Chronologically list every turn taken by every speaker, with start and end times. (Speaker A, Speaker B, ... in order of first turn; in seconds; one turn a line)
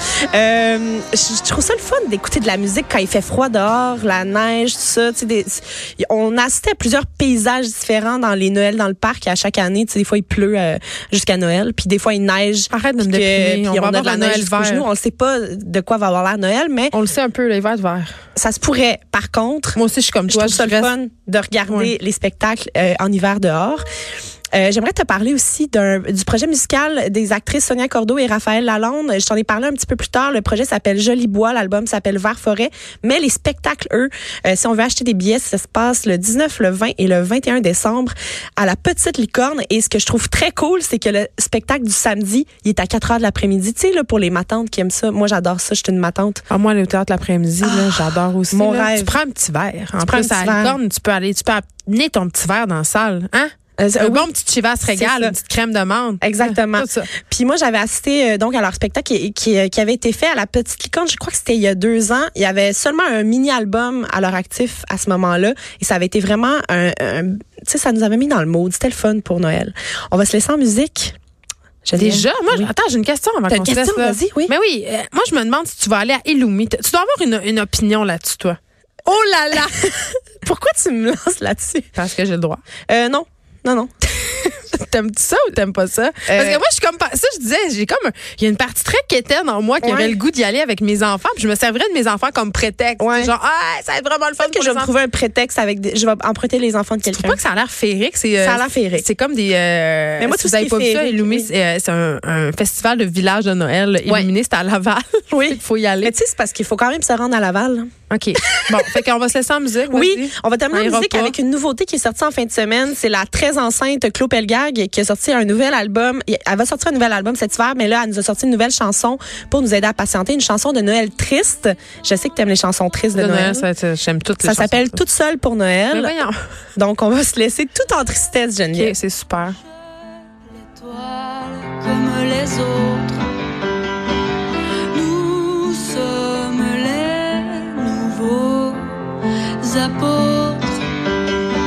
Speaker A: 0.3-16.9
Speaker B: 12.7-14.9
Speaker B: 16.9-18.1
Speaker A: 18.4-23.8
Speaker B: 19.8-20.9
Speaker A: 24.5-46.4
Speaker B: 46.5-57.1
Speaker A: 47.6-49.2
Speaker A: 50.0-50.8
Speaker A: 53.8-54.3
Speaker A: 54.9-55.4
Speaker A: 56.2-71.2
Speaker A: 71.8-72.7
Speaker B: 72.0-79.9
Speaker A: 73.5-74.5
Speaker A: 79.5-81.9
Speaker B: 82.0-82.6
Speaker A: 82.9-83.9
Speaker B: 84.1-94.9
Speaker A: 86.3-86.6
Speaker A: 89.8-90.2
Speaker A: 93.0-93.3
Speaker A: 94.4-97.4
Speaker B: 97.1-106.1
Speaker A: 98.4-99.1
Speaker A: 100.2-101.5
Speaker A: 104.1-104.3
Speaker A: 105.3-107.9
Speaker B: 108.1-111.3
Speaker A: 108.4-108.9
Speaker A: 109.9-123.7
Speaker B: 123.1-125.0
Speaker A: 124.4-126.2
Speaker B: 125.9-126.4
Speaker A: 126.8-128.9
Speaker B: 128.8-129.6
Speaker C: 131.2-133.2
Speaker C: 134.9-139.0
Speaker C: 139.6-140.8